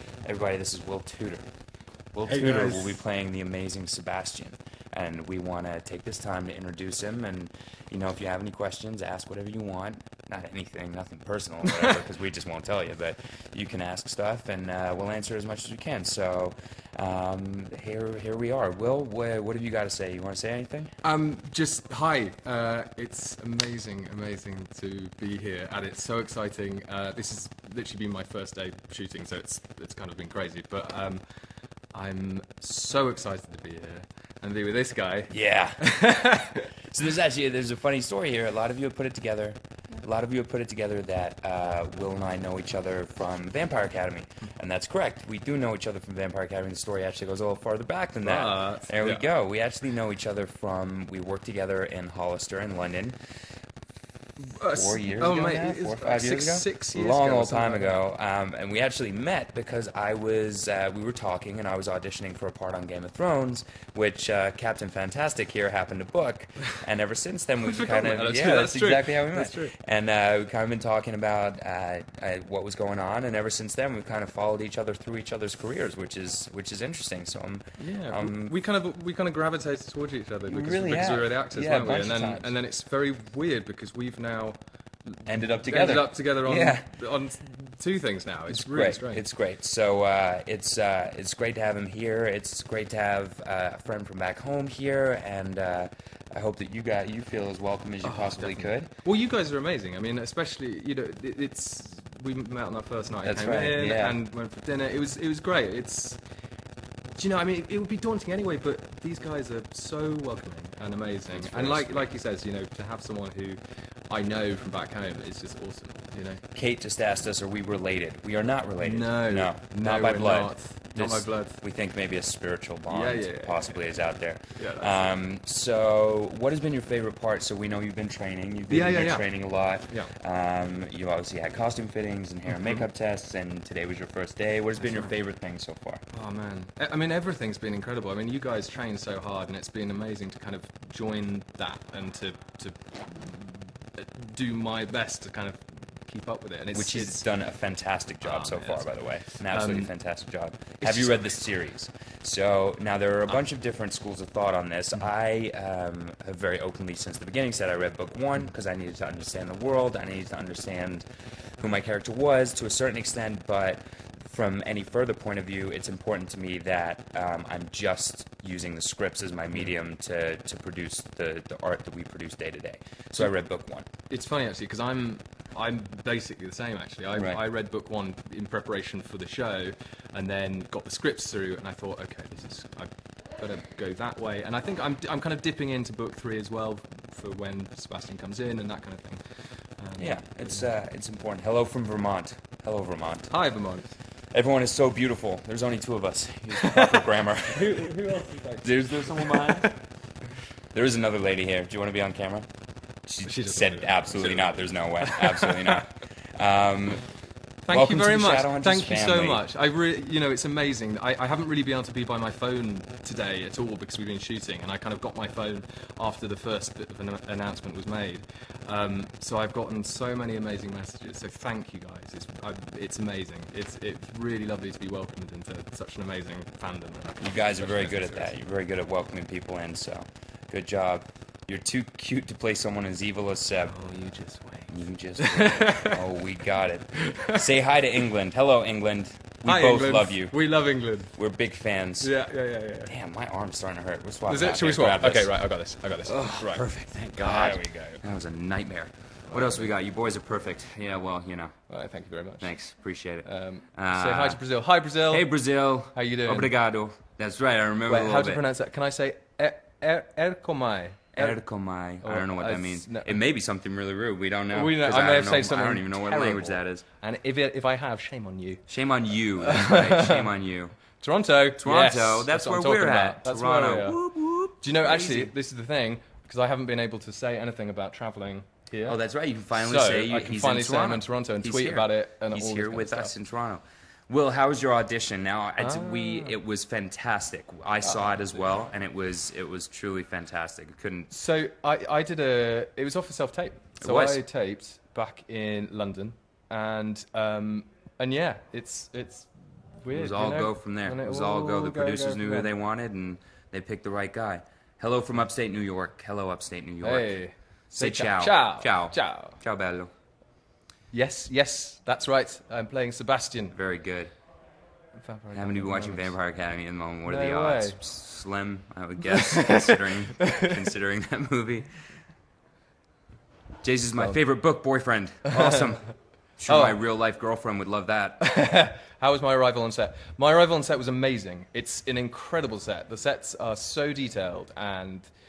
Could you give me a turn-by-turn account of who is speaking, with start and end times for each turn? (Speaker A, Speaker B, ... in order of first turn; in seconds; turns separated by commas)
Speaker A: 0.2-1.4, Speaker A: 2.1-20.9, Speaker B: 2.3-2.9, Speaker B: 11.7-12.0, Speaker B: 21.0-31.2, Speaker B: 31.9-36.7, Speaker A: 35.3-36.0, Speaker A: 36.9-53.2, Speaker B: 48.2-49.3, Speaker B: 54.4-58.0, Speaker A: 54.7-78.6, Speaker B: 67.6-69.8, Speaker B: 77.8-89.2, Speaker A: 80.5-82.5, Speaker A: 85.3-86.9, Speaker A: 88.5-98.9, Speaker B: 98.0-106.2, Speaker A: 103.2-104.2, Speaker B: 107.2-116.4, Speaker A: 111.3-112.1, Speaker A: 116.5-136.0, Speaker B: 118.8-121.6, Speaker B: 122.9-124.0, Speaker B: 124.5-125.2, Speaker B: 128.7-130.1, Speaker B: 132.5-132.8, Speaker B: 134.8-135.1, Speaker B: 136.1-147.2, Speaker A: 146.7-161.1, Speaker B: 148.2-149.9, Speaker B: 150.8-151.3, Speaker A: 161.6-173.9, Speaker B: 174.1-190.7, Speaker A: 177.2-177.4, Speaker A: 190.0-193.3, Speaker B: 193.3-194.0, Speaker A: 194.3-198.0, Speaker B: 196.6-196.8, Speaker B: 197.5-199.7, Speaker A: 198.6-199.8, Speaker A: 200.7-207.1, Speaker B: 203.2-205.8, Speaker B: 207.6-228.3, Speaker A: 207.7-209.4, Speaker A: 227.2-233.8, Speaker B: 233.7-236.0, Speaker A: 234.7-240.4, Speaker B: 236.9-237.4, Speaker B: 239.4-241.2, Speaker A: 241.2-242.1, Speaker B: 242.0-242.9, Speaker A: 242.8-245.3, Speaker B: 244.3-246.7, Speaker A: 246.0-251.6, Speaker B: 247.2-248.0, Speaker B: 249.3-249.7, Speaker B: 251.7-252.6, Speaker A: 252.4-254.4, Speaker B: 253.2-255.3, Speaker A: 254.9-258.4, Speaker B: 255.8-256.5, Speaker B: 257.9-261.4, Speaker A: 261.1-266.9, Speaker B: 262.0-263.2, Speaker B: 264.5-268.7, Speaker A: 268.7-270.8, Speaker B: 269.4-270.3, Speaker B: 270.9-279.0, Speaker A: 271.6-275.3, Speaker A: 278.9-291.1, Speaker B: 279.5-283.2, Speaker B: 285.6-286.4, Speaker B: 287.8-288.3, Speaker B: 291.1-302.5, Speaker A: 293.8-294.2, Speaker A: 299.9-307.2, Speaker B: 306.8-309.4, Speaker A: 307.7-309.9, Speaker B: 310.9-313.6, Speaker A: 313.5-314.1, Speaker B: 314.9-316.2, Speaker A: 315.3-322.0, Speaker B: 317.1-317.8, Speaker A: 323.6-328.2, Speaker B: 326.4-326.8, Speaker B: 328.2-335.1